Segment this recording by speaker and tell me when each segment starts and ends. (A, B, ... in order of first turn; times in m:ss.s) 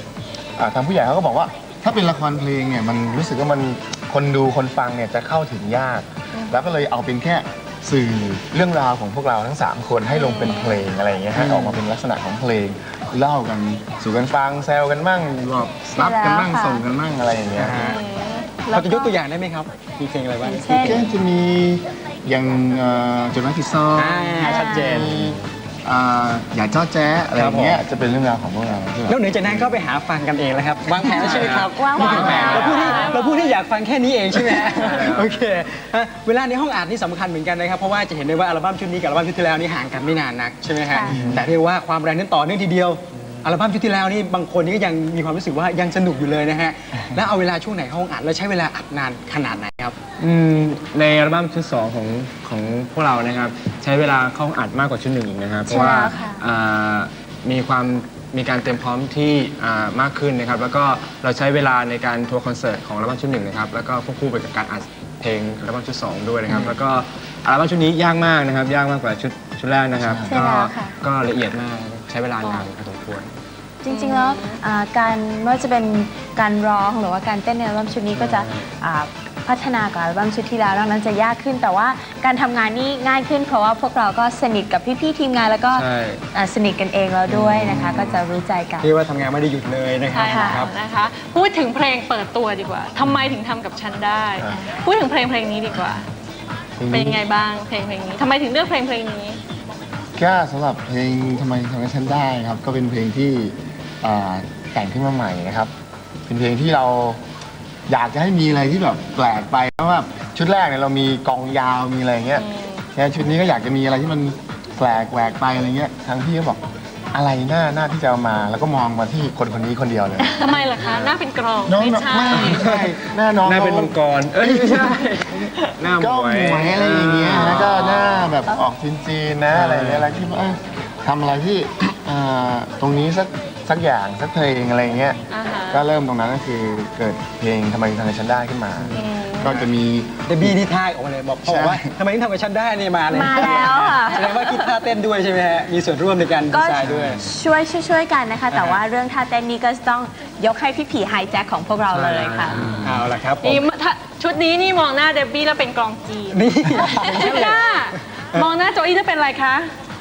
0:00.6-0:17.8 A
0:10.1-0:10.8 B
0:11.3-0:11.8 C
0:16.0-0:16.8 D
0:17.5-0:18.0 C
0:17.8-0:18.5 B
0:18.6-0:19.1 D
0:18.7-0:21.0 C
0:20.4-0:21.0 D
0:20.7-0:29.8 A
0:23.9-0:25.1 C
0:24.4-0:25.0 D
0:27.3-0:27.8 C
0:29.1-0:50.0 C
0:31.0-0:33.1 D
0:31.0-0:33.1 E
0:32.2-0:33.6 B
0:34.4-0:35.4 E
0:40.9-0:41.3 D
0:41.1-0:41.4 A
0:41.1-0:41.4 E
0:50.2-1:13.3 E
0:55.6-0:56.4 D
1:09.9-1:10.4 A
1:10.2-1:10.9 D
1:12.4-1:12.7 B
1:13.8-1:28.9 D
1:13.9-1:14.6 B
1:18.1-1:18.6 E
1:25.7-1:26.2 E
1:27.3-1:28.1 C
1:27.6-1:28.2 E
1:28.8-1:30.7 C
1:30.1-1:36.1 B
1:30.2-1:30.6 D
1:36.8-1:37.2 A
1:36.9-1:39.4 B
1:40.2-1:45.7 A
1:46.3-1:47.2 A
1:47.9-1:56.6 A
1:52.4-1:52.8 B
1:57.1-2:00.3 A
2:00.4-2:02.6 B
2:00.6-2:01.1 E
2:01.7-2:20.6 A
2:02.3-2:02.8 E
2:03.4-2:08.4 E
2:09.5-2:10.3 E
2:15.3-2:15.8 B
2:18.8-2:19.7 C
2:18.9-2:19.5 B
2:20.3-2:27.2 C
2:21.4-2:21.9 A
2:23.1-2:24.7 D
2:26.5-2:32.8 D
2:26.8-2:27.2 E
2:28.5-2:28.8 C
2:31.9-2:33.1 E
2:32.8-2:33.6 C
2:33.4-2:39.7 B
2:36.3-2:37.6 C